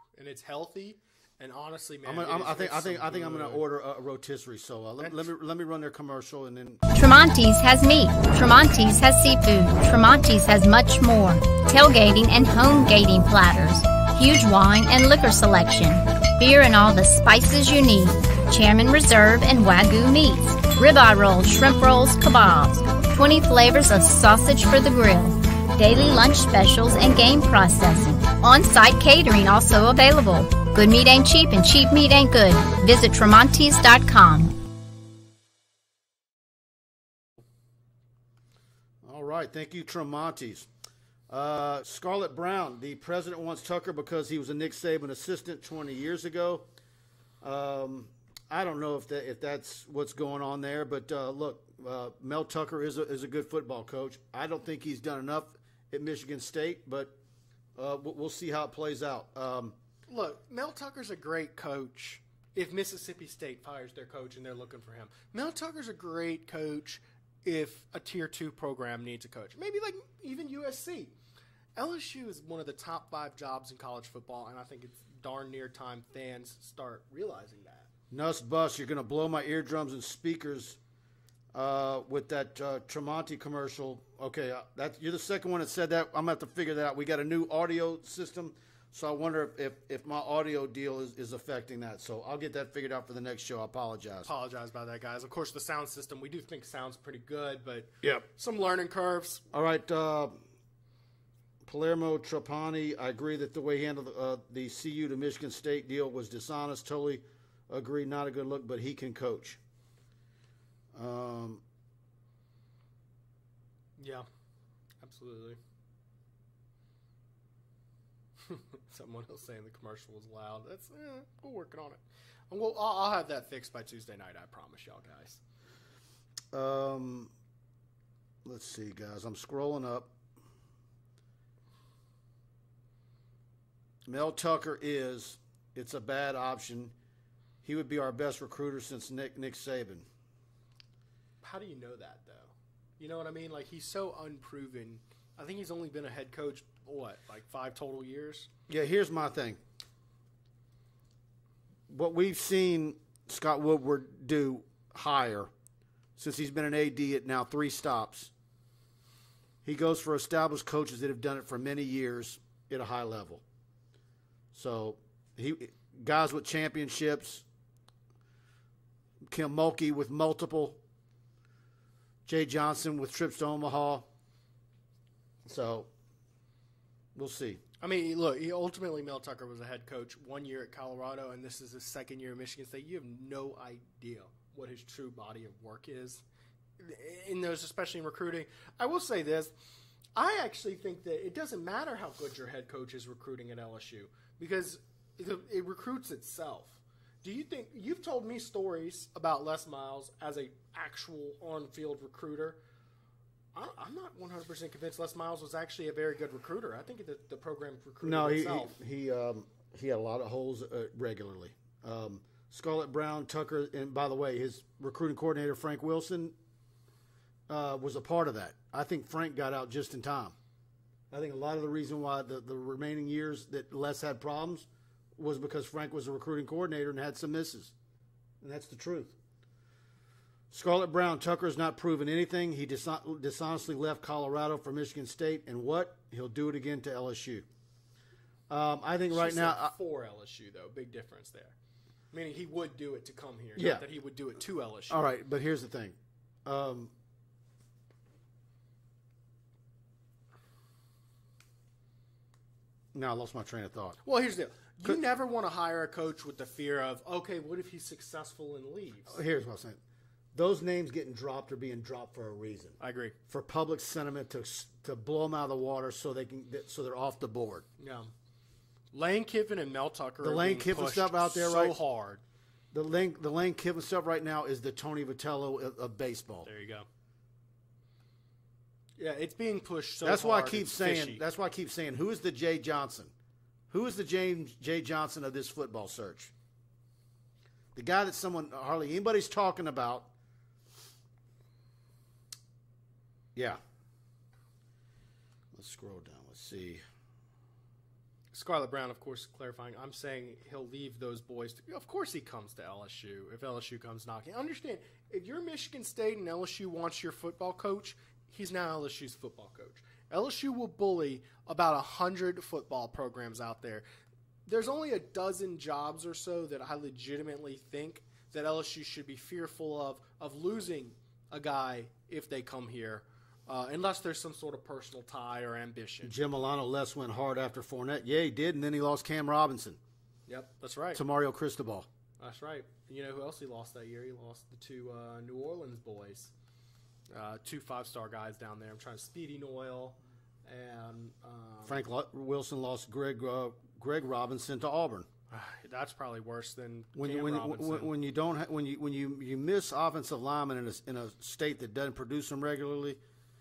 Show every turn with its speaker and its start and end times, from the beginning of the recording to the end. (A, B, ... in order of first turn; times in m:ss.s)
0:00.2-0:03.6 A
0:02.0-0:06.8 B
0:05.0-0:05.3 A
0:06.9-0:34.6 C
0:39.0-0:40.7 B
0:41.3-0:46.7 B
0:47.4-0:57.2 B
0:57.8-0:59.8 B
1:00.1-1:11.2 A
1:11.8-1:17.9 A
1:18.1-1:20.8 B
1:21.5-1:34.3 B
1:34.3-1:39.4 A
1:39.5-1:40.4 B
1:41.6-1:49.6 B
1:50.9-1:51.6 B
1:54.0-1:54.3 A
1:55.0-1:55.6 A
1:58.4-2:05.4 A
2:06.5-2:07.3 B
2:08.4-2:10.1 B
2:14.1-2:16.9 B
2:17.6-2:20.1 B
2:21.4-2:28.5 A
2:28.7-2:29.6 B
2:31.9-2:35.5 B
2:36.2-2:38.3 B
2:39.6-2:43.4 B
2:44.5-2:47.5 B
2:49.3-2:50.8 B
2:52.3-2:54.1 B
2:55.4-2:55.9 B
2:57.2-2:57.6 B
2:57.8-3:06.2 A
3:06.8-3:09.5 A
3:10.2-3:22.6 A
3:23.6-3:28.8 A
3:28.0-3:36.4 B
3:37.5-3:40.4 B
3:41.1-3:47.7 B
3:48.4-3:49.2 B
3:50.5-3:57.5 B
3:58.5-3:59.7 B
3:59.1-4:01.6 A
4:02.1-4:05.0 A
4:03.6-4:03.9 B
4:04.9-4:06.9 B
4:12.9-4:14.0 B
4:14.0-4:19.2 A
4:19.1-4:19.8 B
4:20.3-4:22.8 B
4:22.8-4:23.2 A
4:23.3-4:27.7 B
4:27.8-4:28.1 A
4:28.9-4:32.2 A
4:30.2-4:31.8 B
4:32.7-4:36.5 B
4:36.4-4:36.9 A
4:39.0-4:41.2 A
4:40.0-4:43.1 B
4:43.7-4:46.3 B
4:47.8-4:50.1 B
4:53.4-4:53.6 B
4:55.5-4:56.8 B
4:58.3-5:13.8 A
5:14.5-5:26.1 A
5:26.0-5:29.8 B
5:30.3-5:31.0 A
5:30.9-5:31.9 B
5:32.2-5:36.3 A
5:37.1-5:41.8 A
5:41.7-5:45.1 B
5:45.3-5:47.9 A
5:47.0-5:53.0 B